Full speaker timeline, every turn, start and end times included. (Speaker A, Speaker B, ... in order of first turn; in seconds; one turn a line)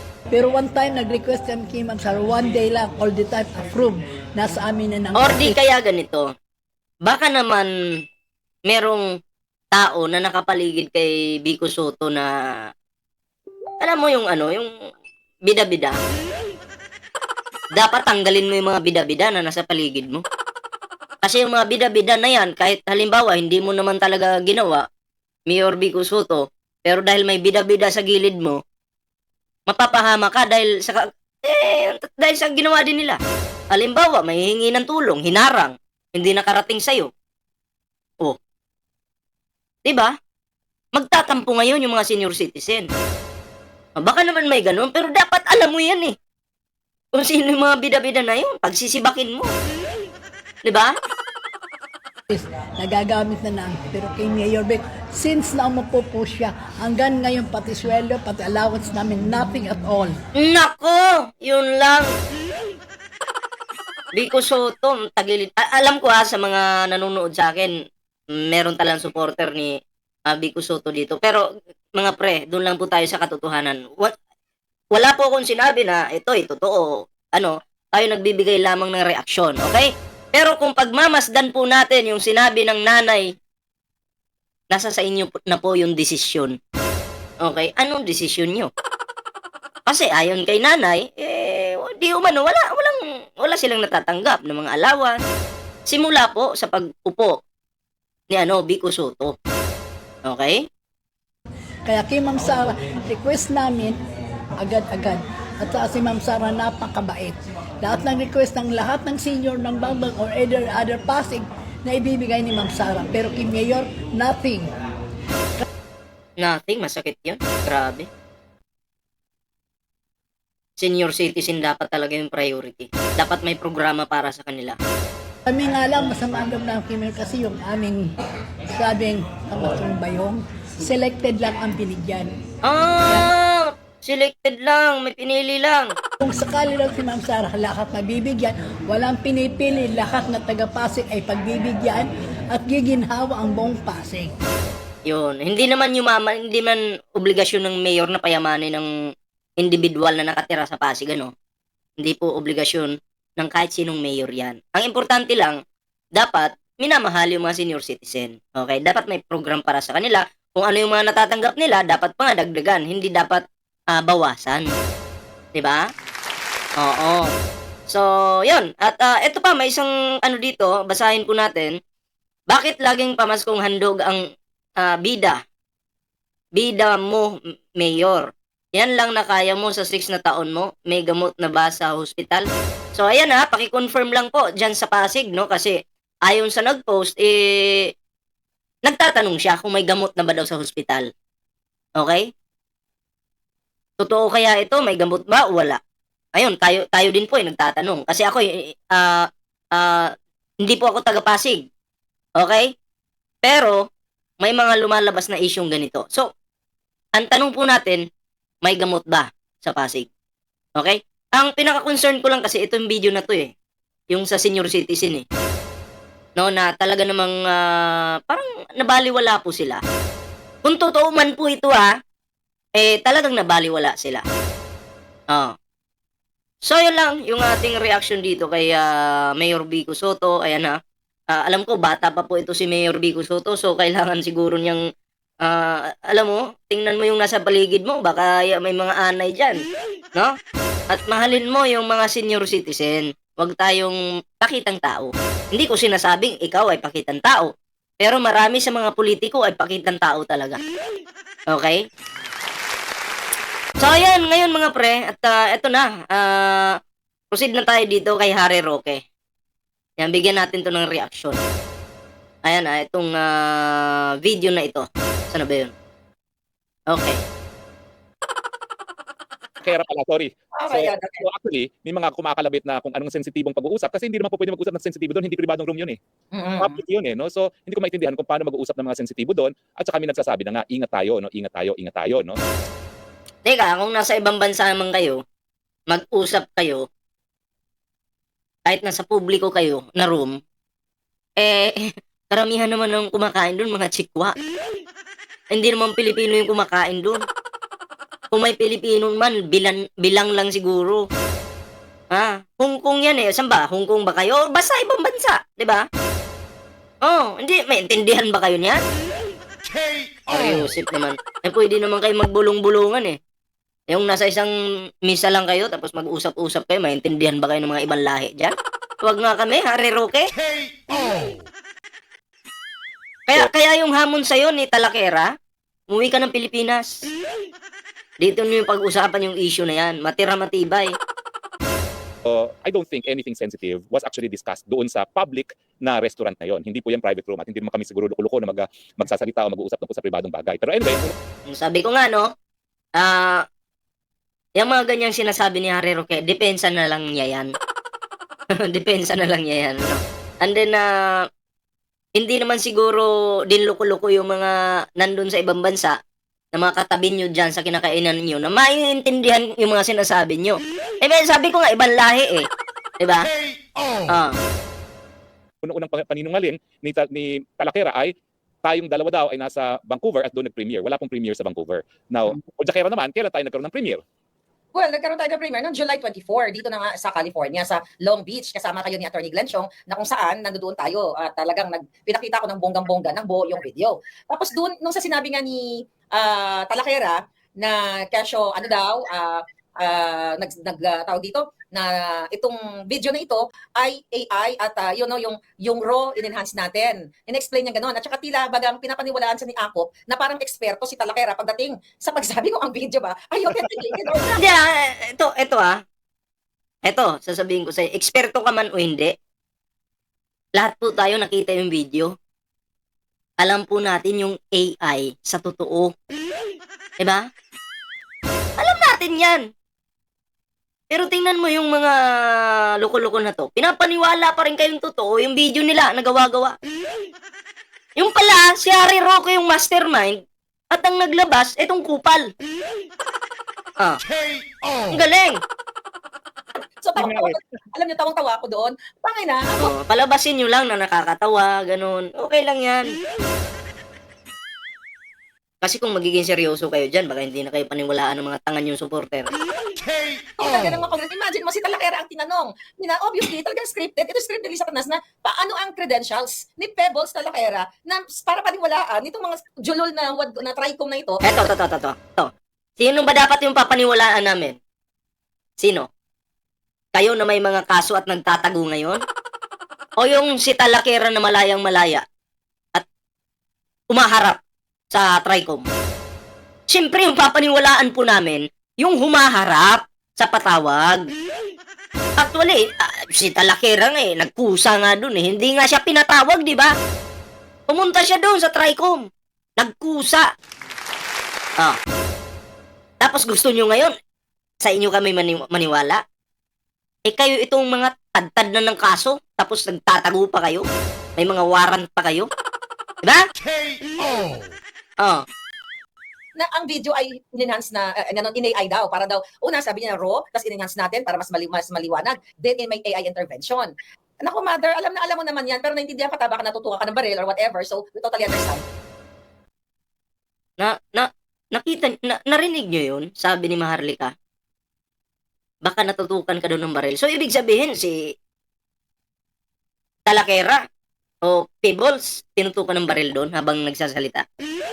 Speaker A: 0.3-5.6
Speaker B: 5.2-6.3
Speaker B: 7.0-7.7
Speaker B: 8.7-9.1
Speaker B: 9.7-12.7
Speaker B: 13.8-14.7
Speaker B: 15.4-16.0
Speaker B: 17.7-20.2
Speaker B: 21.2-24.9
Speaker B: 25.5-28.6
Speaker B: 29.7-33.2
Speaker B: 33.7-37.1
Speaker B: 39.8-40.1
Speaker B: 40.9-42.9
Speaker B: 44.0-46.1
Speaker B: 47.1-49.5
Speaker B: 50.6-50.9
Speaker A: 52.3-60.2
Speaker B: 60.4-62.1
Speaker B: 64.1-67.7
Speaker B: 68.4-69.7
Speaker B: 70.3-74.1
Speaker B: 74.9-83.3
Speaker B: 84.7-86.6
Speaker B: 87.4-88.7
Speaker B: 89.8-95.2
Speaker B: 95.9-97.4
Speaker B: 98.3-99.3
Speaker B: 100.2-100.7
Speaker A: 101.8-104.0
Speaker A: 104.6-114.7
Speaker B: 116.4-118.1
Speaker B: 120.8-124.8
Speaker A: 125.5-128.1
Speaker A: 128.7-132.3
Speaker B: 132.6-135.9
Speaker A: 133.0-133.3
Speaker A: 136.2-144.3
Speaker B: 145.1-148.9
Speaker B: 149.6-151.3
Speaker B: 152.0-155.6
Speaker B: 156.2-164.7
Speaker B: 165.5-165.9
Speaker B: 166.8-167.3
Speaker B: 167.9-171.8
Speaker B: 172.5-174.2
Speaker B: 174.8-175.4
Speaker B: 176.6-187.9
Speaker B: 188.8-191.1
Speaker B: 192.0-192.3
Speaker B: 194.0-195.8
Speaker B: 196.3-201.7
Speaker B: 202.4-202.7
Speaker B: 203.4-203.8
Speaker B: 204.4-206.3
Speaker B: 207.2-208.0
Speaker B: 208.6-210.1
Speaker B: 210.8-213.5
Speaker B: 214.1-215.2
Speaker B: 216.4-219.8
Speaker B: 220.6-221.9
Speaker B: 222.8-224.2
Speaker B: 226.7-230.8
Speaker B: 231.3-234.8
Speaker B: 235.4-239.6
Speaker B: 240.9-247.5
Speaker B: 248.0-250.6
Speaker B: 251.5-251.8
Speaker B: 253.8-256.8
Speaker B: 257.3-259.0
Speaker B: 260.0-261.4
Speaker B: 262.4-265.7
Speaker B: 266.9-267.2
Speaker C: 269.6-276.0
Speaker D: 270.6-271.2
Speaker D: 276.3-276.8
Speaker C: 276.6-282.4
Speaker B: 283.4-285.2
Speaker B: 285.9-286.9
Speaker B: 288.6-290.4
Speaker B: 291.4-294.3
Speaker B: 295.5-297.2
Speaker B: 298.3-301.1
Speaker B: 302.1-305.8
Speaker B: 307.0-308.8
Speaker B: 310.3-313.2
Speaker B: 313.9-314.5
Speaker B: 315.0-320.3
Speaker B: 323.3-325.3
Speaker B: 325.9-327.0
Speaker B: 328.2-330.9
Speaker C: 332.2-341.1
Speaker B: 341.5-342.3
Speaker B: 343.0-343.4
Speaker B: 344.6-347.5
Speaker B: 348.6-351.3
Speaker B: 352.1-356.0
Speaker B: 356.5-362.5
Speaker B: 363.0-363.3
Speaker B: 364.1-364.4
Speaker C: 365.6-374.0
Speaker D: 374.7-404.5
Speaker B: 404.3-405.8
Speaker B: 406.8-409.1
Speaker B: 410.6-412.1
Speaker B: 413.4-415.9
Speaker B: 417.0-417.2
Speaker B: 418.6-419.4
Speaker B: 420.9-426.6
Speaker B: 428.0-430.2
Speaker B: 430.7-432.3
Speaker B: 434.9-435.4
Speaker D: 436.8-439.7
Speaker C: 437.0-437.4
Speaker B: 439.6-442.9
Speaker B: 445.6-449.3
Speaker D: 450.4-461.2
Speaker B: 461.2-464.6
Speaker B: 465.6-465.9
Speaker B: 466.9-469.0
Speaker B: 470.0-472.0
Speaker B: 473.9-474.4
Speaker B: 474.9-475.6
Speaker B: 476.7-481.1
Speaker B: 482.2-486.7
Speaker B: 487.7-489.1
Speaker B: 489.6-490.3
Speaker B: 493.0-493.9
Speaker B: 494.6-496.0
Speaker B: 497.1-500.6
Speaker B: 501.2-502.3
Speaker D: 506.4-518.6
Speaker B: 520.6-524.1
Speaker B: 525.6-528.1
Speaker B: 530.1-530.6
Speaker B: 531.2-534.2